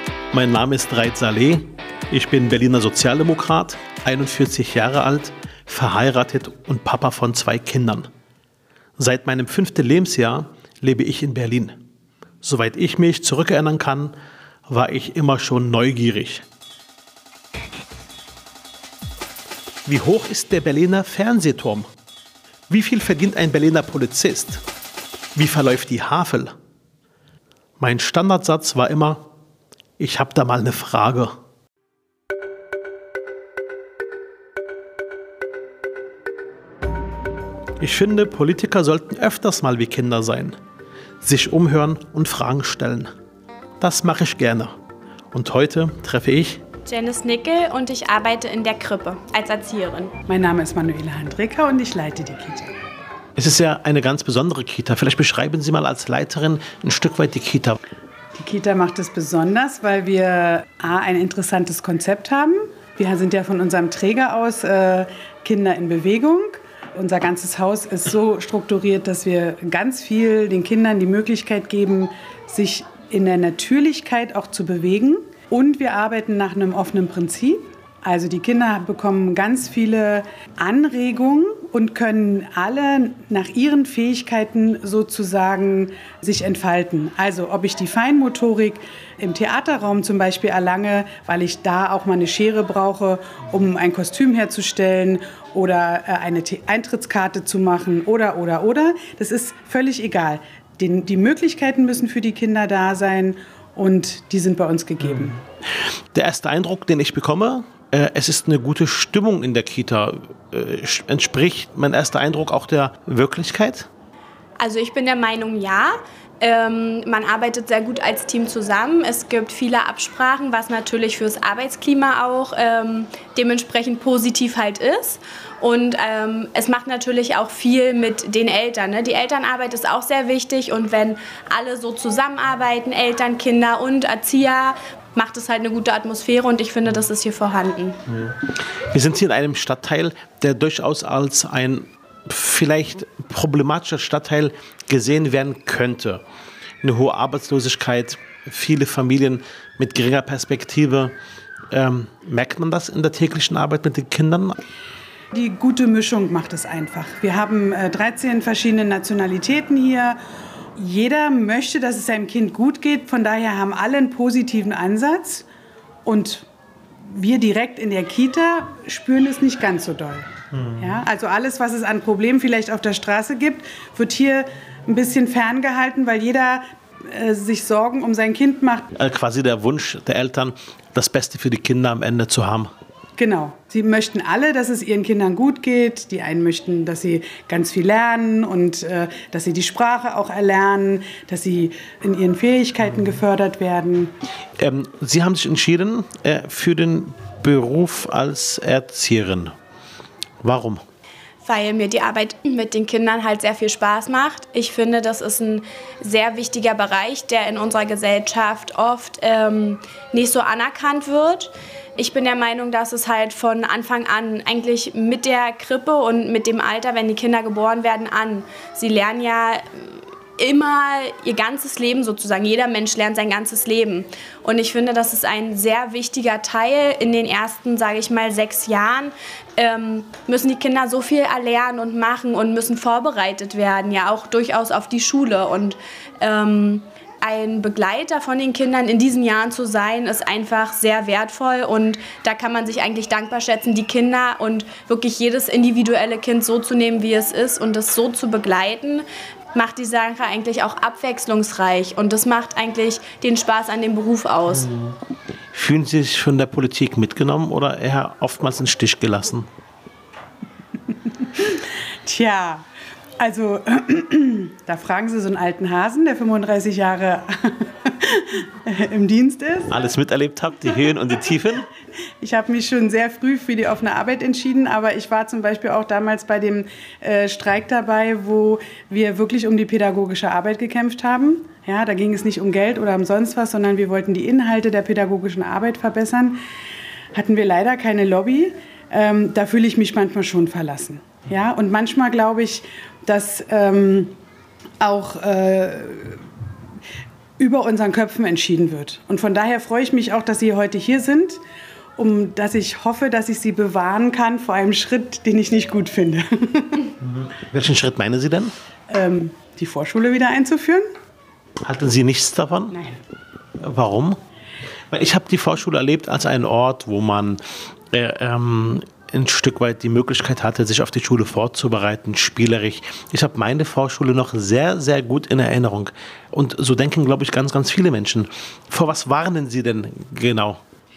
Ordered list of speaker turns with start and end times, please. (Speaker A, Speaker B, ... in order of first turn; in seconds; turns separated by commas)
Speaker A: 0.3-8.1, Speaker A: 9.0-11.8, Speaker A: 12.4-14.1, Speaker A: 14.7-16.4, Speaker A: 19.9-21.9, Speaker A: 22.7-24.6, Speaker A: 25.4-26.5, Speaker A: 27.8-29.2, Speaker A: 30.0-31.4, Speaker A: 37.8-40.6, Speaker A: 41.2-43.1, Speaker A: 43.8-44.7, Speaker A: 45.3-46.6, Speaker B: 46.9-50.1, Speaker C: 50.3-52.7, Speaker A: 53.4-57.8, Speaker C: 58.3-105.4, Speaker A: 106.1-113.9, Speaker B: 114.6-138.0, Speaker A: 138.1-146.2, Speaker A: 146.8-151.1, Speaker A: 151.7-154.5, Speaker C: 155.3-160.2, Speaker C: 160.8-165.4, Speaker C: 166.0-166.5, Speaker C: 167.0-178.9, Speaker A: 170.5-170.9, Speaker A: 178.9-182.7, Speaker C: 183.2-194.1, Speaker A: 194.6-199.5, Speaker A: 200.4-200.8, Speaker B: 201.4-254.7, Speaker A: 254.5-255.0, Speaker A: 255.5-259.4, Speaker C: 261.4-262.6, Speaker C: 263.2-269.8, Speaker A: 269.7-271.7, Speaker C: 272.2-286.4, Speaker C: 287.1-294.1, Speaker C: 294.8-296.2, Speaker C: 297.4-301.4, Speaker C: 302.0-306.9, Speaker A: 307.0-308.5, Speaker C: 308.9-310.8, Speaker A: 311.6-312.9, Speaker A: 313.6-314.2, Speaker A: 314.9-317.4, Speaker A: 317.9-330.6